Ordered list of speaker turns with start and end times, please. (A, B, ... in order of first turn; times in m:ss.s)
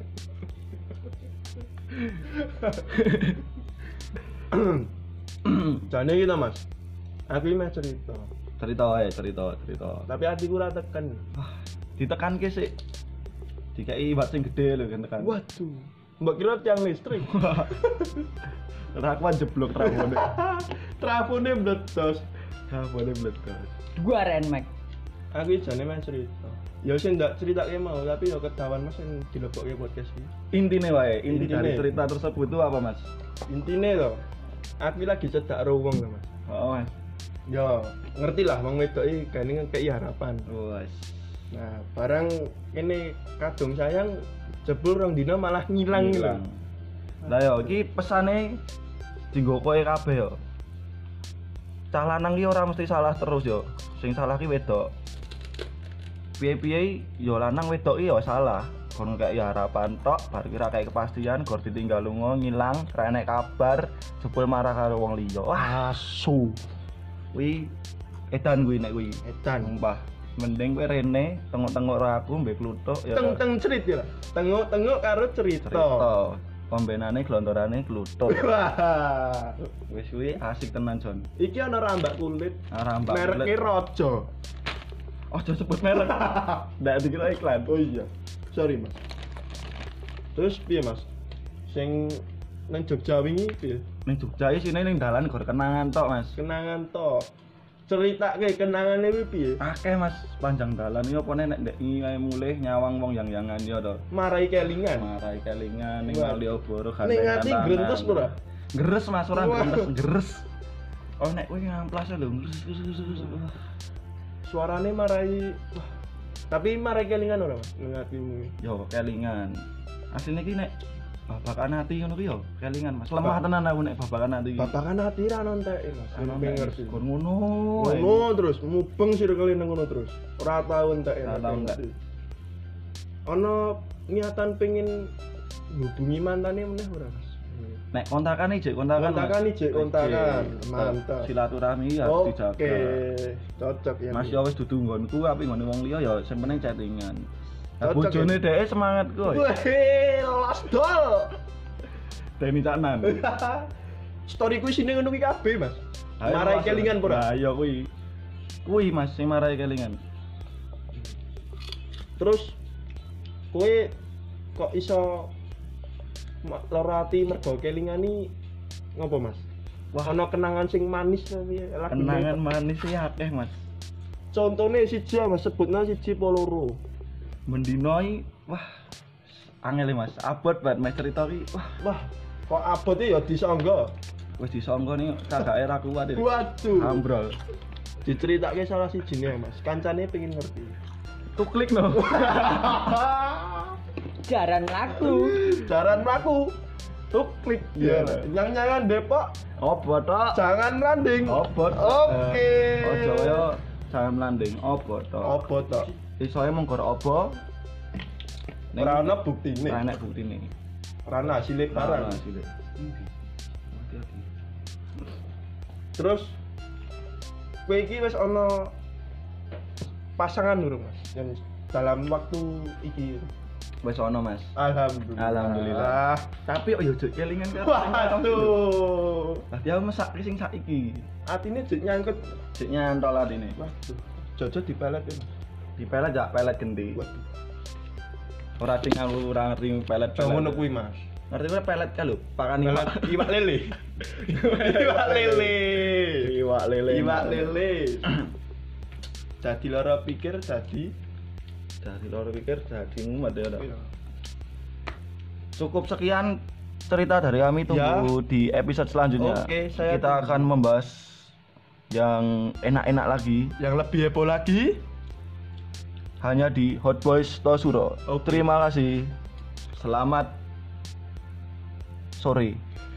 0:02.9-0:03.4 A
0:04.5-0:04.9 B
0:05.7-0:06.6 B
0:07.3-0:08.3 B
0:08.6-0:10.1 A
0:10.1-0:11.2 B
0:11.4-0:12.8 A
0:13.7-0:15.4 A
0:15.2-0:18.1 B
0:17.2-0:17.8 A
0:18.9-0:20.4 A
0:19.8-0:22.2 B
0:22.7-0:23.7 A
0:24.0-0:24.7 C
0:25.3-0:30.3 B
0:30.5-0:33.1 A
0:31.3-0:31.9 B
0:33.5-0:34.2 B
0:34.8-0:36.3 B
0:36.5-0:36.9 A
0:37.5-0:40.5 B
0:40.5-0:41.4 A
0:41.5-0:46.4 B
0:45.9-0:46.6 A
0:47.2-0:47.8 B
0:47.2-0:48.6 A
0:49.3-0:50.4 A
0:51.9-0:54.9 A
0:56.4-1:05.8 A
1:05.6-1:06.6 B
1:07.3-1:07.7 A
1:08.3-1:13.4 A
1:09.2-1:09.7 B
1:13.1-1:16.1 B
1:15.7-1:18.4 A
1:18.3-1:19.6 B
1:19.9-1:21.3 A
1:21.4-1:24.3 B
1:22.7-1:23.6 A
1:25.3-1:27.7 A
1:27.7-1:29.0 B
1:30.4-1:31.1 B
1:31.7-1:33.9 B
1:34.1-1:36.4 A
1:36.4-1:37.3 B
1:37.9-1:39.6 B
1:39.6-1:44.0 A
1:44.1-1:45.1 B
1:44.9-1:50.5 A
1:46.0-1:46.5 B
1:47.0-1:48.4 B
1:49.3-1:49.9 B
1:51.2-1:53.6 A
1:54.5-1:55.9 B
1:56.5-1:58.5 B
1:58.6-1:59.6 A
2:00.1-2:00.7 A
2:01.3-2:04.8 A
2:04.6-2:07.0 B
2:06.1-2:08.3 A
2:07.8-2:12.0 B
2:11.2-2:11.8 A
2:13.3-2:15.1 B
2:15.7-2:17.8 B
2:17.9-2:23.0 A
2:19.0-2:21.3 B
2:22.0-2:24.4 B
2:24.1-2:27.3 A
2:27.8-2:29.5 A
2:27.8-2:28.4 B
2:29.2-2:31.4 B
2:32.4-2:33.2 A
2:33.0-2:33.7 B
2:34.3-2:37.3 B
2:36.2-2:37.9 A
2:38.6-2:40.0 A
2:42.2-2:42.6 B
2:43.5-2:44.0 B
2:44.6-2:45.3 B
2:46.4-2:48.3 B
2:49.0-2:49.5 B
2:49.9-2:50.2 A
2:50.0-2:52.4 B
2:51.9-2:53.6 A
2:54.3-2:56.8 B
2:57.5-2:58.7 A
2:59.3-3:01.8 A
3:01.8-3:03.9 B
3:04.4-3:07.4 A
3:06.2-3:07.0 B
3:08.0-3:10.8 B
3:11.3-3:13.0 A
3:12.0-3:13.8 B
3:14.2-3:15.4 C
3:15.0-3:16.5 B
3:17.1-3:18.3 A
3:17.3-3:19.3 B
3:19.6-3:20.4 A
3:20.3-3:23.5 B
3:21.3-3:25.4 A
3:25.2-3:25.9 B
3:26.0-3:27.4 A
3:28.7-3:30.5 A
3:28.8-3:29.9 B
3:31.1-3:32.2 B
3:31.7-3:33.1 A
3:33.7-3:34.3 A
3:36.0-3:36.4 B
3:37.7-3:38.7 B
3:40.2-3:43.3 B
3:43.8-3:44.5 A
3:44.6-3:46.3 B
3:45.2-3:48.7 A
3:47.5-3:49.5 B
3:49.5-3:51.1 A
3:51.3-3:52.4 B
3:52.6-3:53.6 A
3:53.6-3:55.3 B
3:55.8-3:57.0 A
3:57.0-3:57.3 B
3:58.6-4:00.7 A
4:00.2-4:01.0 B
4:01.3-4:03.4 A
4:02.6-4:06.3 B
4:04.0-4:08.2 A
4:06.9-4:08.1 B
4:09.4-4:11.0 B
4:11.8-4:13.7 A
4:13.6-4:13.9 B
4:15.6-4:21.3 A
4:17.7-4:18.1 B
4:19.2-4:20.5 B
4:21.9-4:23.6 A
4:23.6-4:24.8 B
4:26.2-4:29.2 A
4:28.1-4:28.5 B
4:29.8-4:30.4 A
4:32.2-4:32.6 A